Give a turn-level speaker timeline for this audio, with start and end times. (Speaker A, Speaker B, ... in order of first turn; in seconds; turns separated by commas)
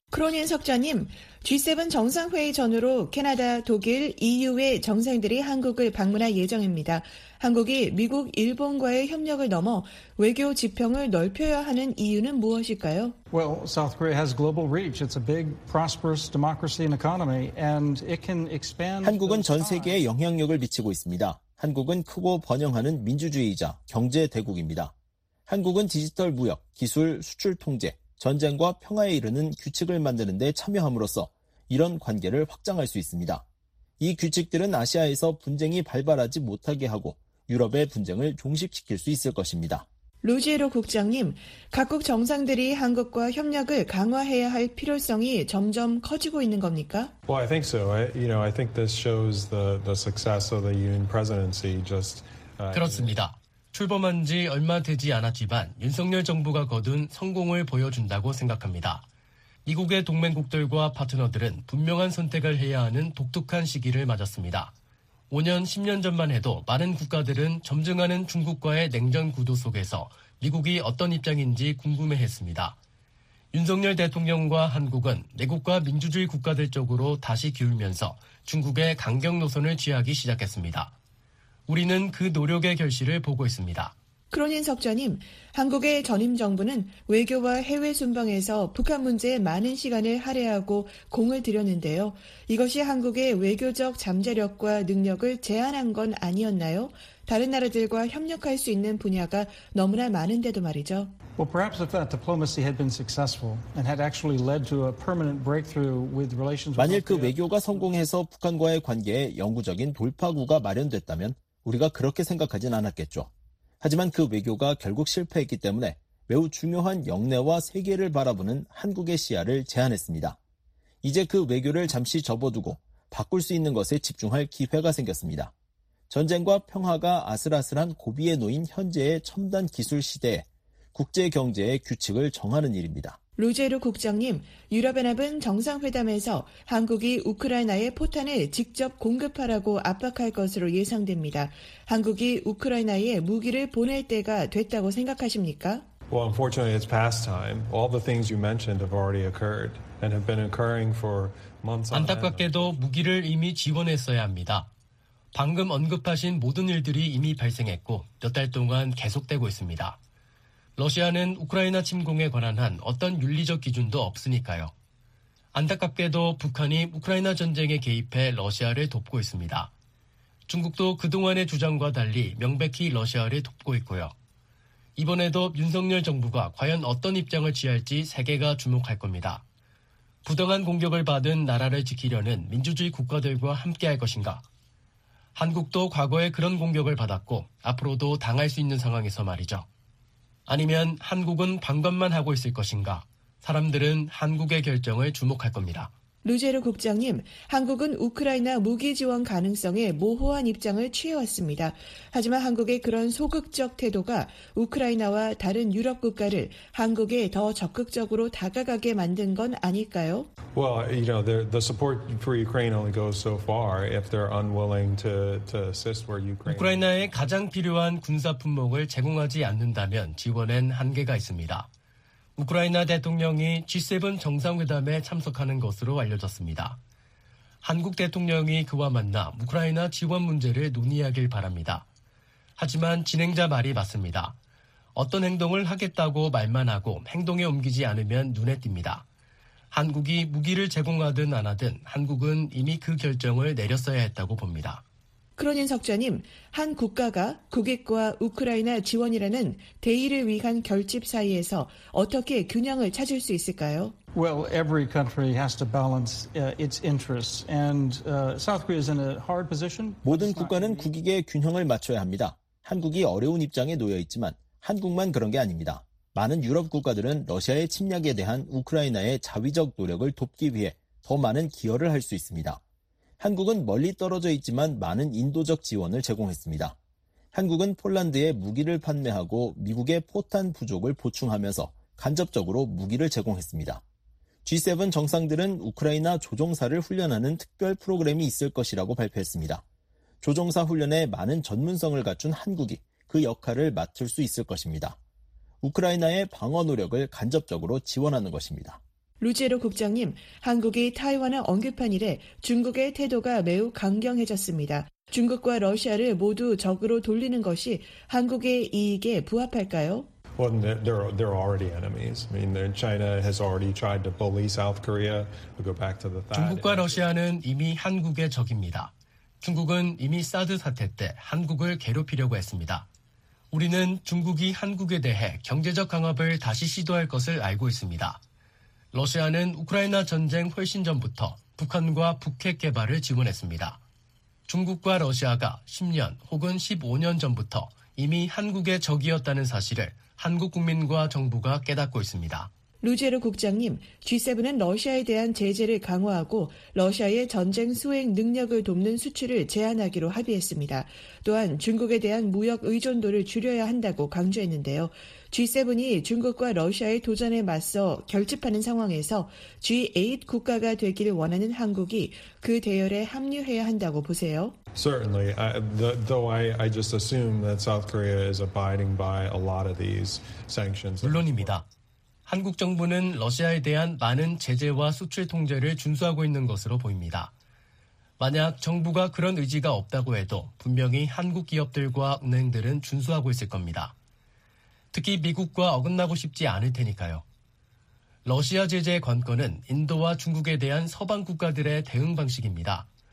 Speaker A: 0.1-13.1, Speaker B: 13.3-20.1, Speaker C: 19.0-24.9, Speaker C: 25.5-33.4, Speaker C: 34.0-39.9, Speaker A: 40.2-47.1, Speaker D: 47.3-53.2, Speaker E: 52.7-59.0, Speaker E: 59.6-64.7, Speaker E: 65.3-72.8, Speaker E: 73.5-80.9, Speaker E: 81.7-83.9, Speaker A: 84.3-101.1, Speaker B: 101.3-107.9, Speaker C: 106.8-113.3, Speaker C: 113.8-120.4, Speaker C: 121.0-125.5, Speaker C: 126.1-133.2, Speaker A: 133.4-145.8, Speaker D: 146.1-152.8, Speaker E: 151.9-154.7, Speaker E: 155.3-160.0, Speaker E: 160.8-164.7, Speaker E: 165.5-169.7, Speaker E: 170.5-174.1, Speaker E: 175.0-179.4, Speaker E: 180.2-184.4, Speaker E: 185.3-189.7, Speaker E: 190.5-195.9, Speaker A: 196.2-210.3, Speaker D: 210.5-217.4, Speaker E: 216.4-221.7, Speaker E: 222.4-226.8, Speaker E: 227.6-231.8, Speaker E: 232.6-234.3, Speaker E: 234.9-239.0, Speaker E: 239.7-244.8, Speaker A: 245.4-253.9, Speaker B: 254.1-260.9, Speaker C: 260.0-272.6, Speaker C: 273.2-276.8, Speaker C: 277.3-283.8, Speaker C: 284.4-289.6, Speaker C: 290.2-295.0, Speaker C: 295.6-298.8, Speaker A: 299.2-310.1, Speaker D: 310.3-317.1, Speaker E: 316.3-322.9, Speaker E: 323.5-328.2, Speaker E: 328.9-333.8, Speaker E: 334.5-342.5, Speaker A: 342.8-364.6, Speaker D: 364.7-371.6, Speaker E: 371.0-371.6, Speaker E: 372.2-377.3, Speaker E: 378.2-383.9, Speaker E: 384.9-387.2, Speaker E: 388.2-392.9